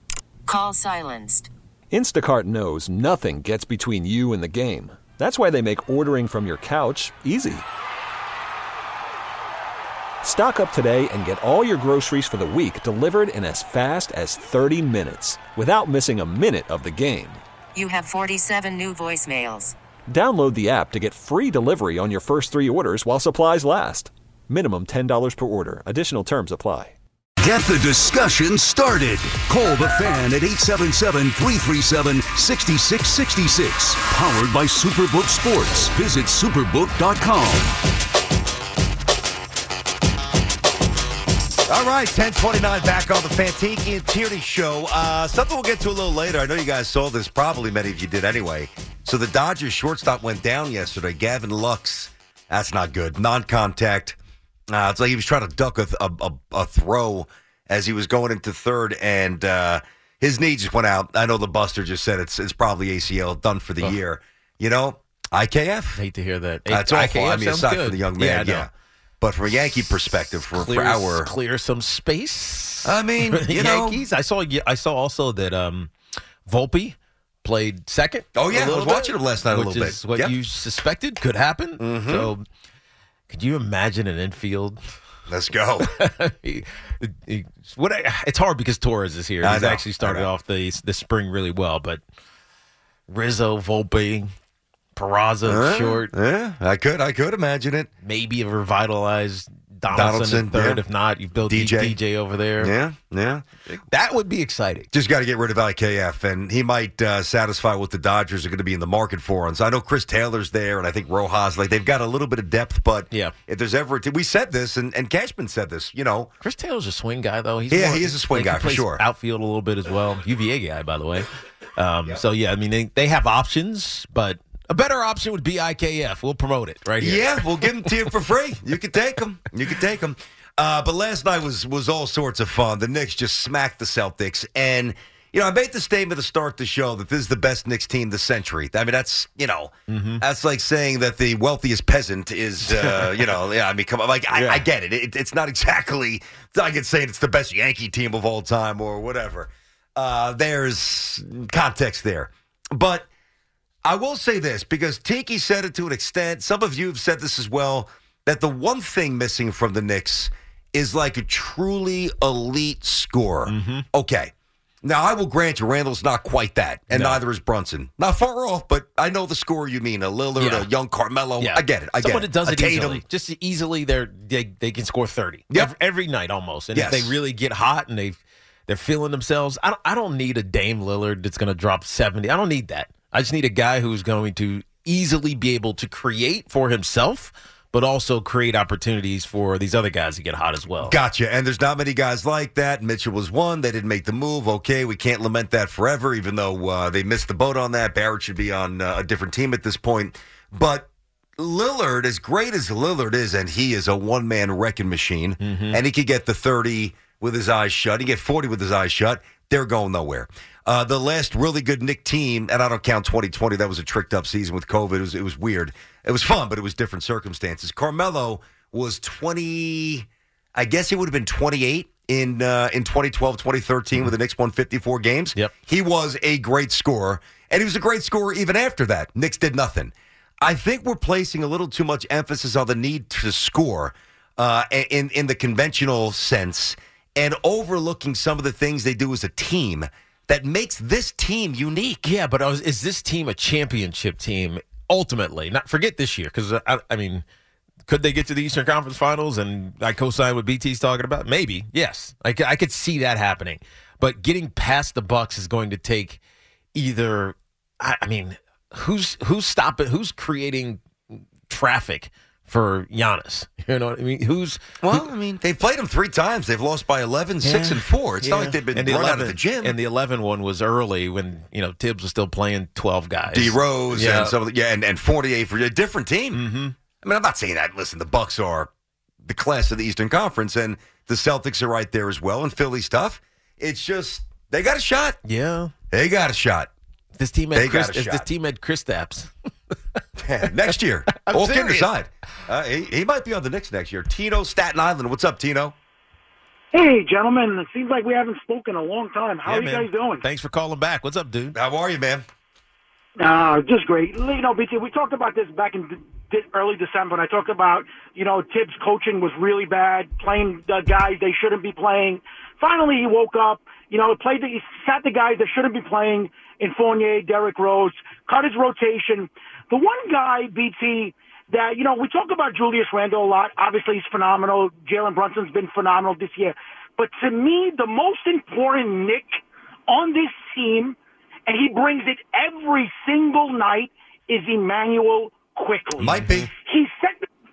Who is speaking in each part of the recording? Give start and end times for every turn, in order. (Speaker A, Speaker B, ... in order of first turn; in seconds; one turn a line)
Speaker A: 0.5-1.5
Speaker B: 1.9-7.7
Speaker B: 10.2-17.4
Speaker A: 17.8-19.8
Speaker B: 20.1-27.0
Speaker C: 27.4-37.7
Speaker D: 41.7-54.2
Speaker D: 54.7-66.0
Speaker E: 66.0-68.7
Speaker D: 66.7-68.7
Speaker D: 69.2-71.3
Speaker E: 70.5-75.9
Speaker D: 72.8-74.0
Speaker E: 76.5-82.4
Speaker D: 78.3-80.4
Speaker D: 81.8-82.3
Speaker E: 83.3-84.8
Speaker D: 85.3-85.9
Speaker E: 85.8-92.0
Speaker D: 89.4-90.3
Speaker E: 93.1-94.3
Speaker E: 95.0-96.1
Speaker D: 95.5-97.9
Speaker E: 98.0-102.7
Speaker D: 99.9-100.8
Speaker D: 101.4-102.0
Speaker D: 102.6-103.5
Speaker E: 103.7-104.9
Speaker D: 104.9-116.3
Speaker E: 116.4-121.3
Speaker D: 117.7-119.0
Speaker E: 121.8-128.0
Speaker D: 127.0-153.1
Speaker E: 139.9-140.2
Speaker E: 142.7-143.3
Speaker E: 144.3-144.7
Speaker D: 153.8-164.3
Speaker E: 163.5-163.9
Speaker D: 164.8-173.0
Speaker E: 166.9-167.2
Speaker E: 170.4-170.7
Speaker E: 171.4-191.0
Speaker D: 176.7-177.2
Speaker D: 190.8-242.0
Speaker E: 205.4-205.8
Speaker E: 242.0-247.2
Speaker E: 247.9-256.2
Speaker E: 256.8-265.1
Speaker D: 264.8-269.8
Speaker E: 267.4-274.3
Speaker D: 273.3-276.4
Speaker E: 276.3-276.8
Speaker D: 277.0-278.7
Speaker D: 279.2-285.2
Speaker E: 285.2-285.7
Speaker D: 285.9-286.7
Speaker E: 287.1-290.0
Speaker D: 287.5-288.3
Speaker D: 290.2-295.8
Speaker E: 291.1-291.9
Speaker F: 296.7-300.2
Speaker E: 299.4-301.6
Speaker D: 301.6-302.2
Speaker F: 303.2-337.3
Speaker D: 336.0-336.5
Speaker E: 336.2-336.5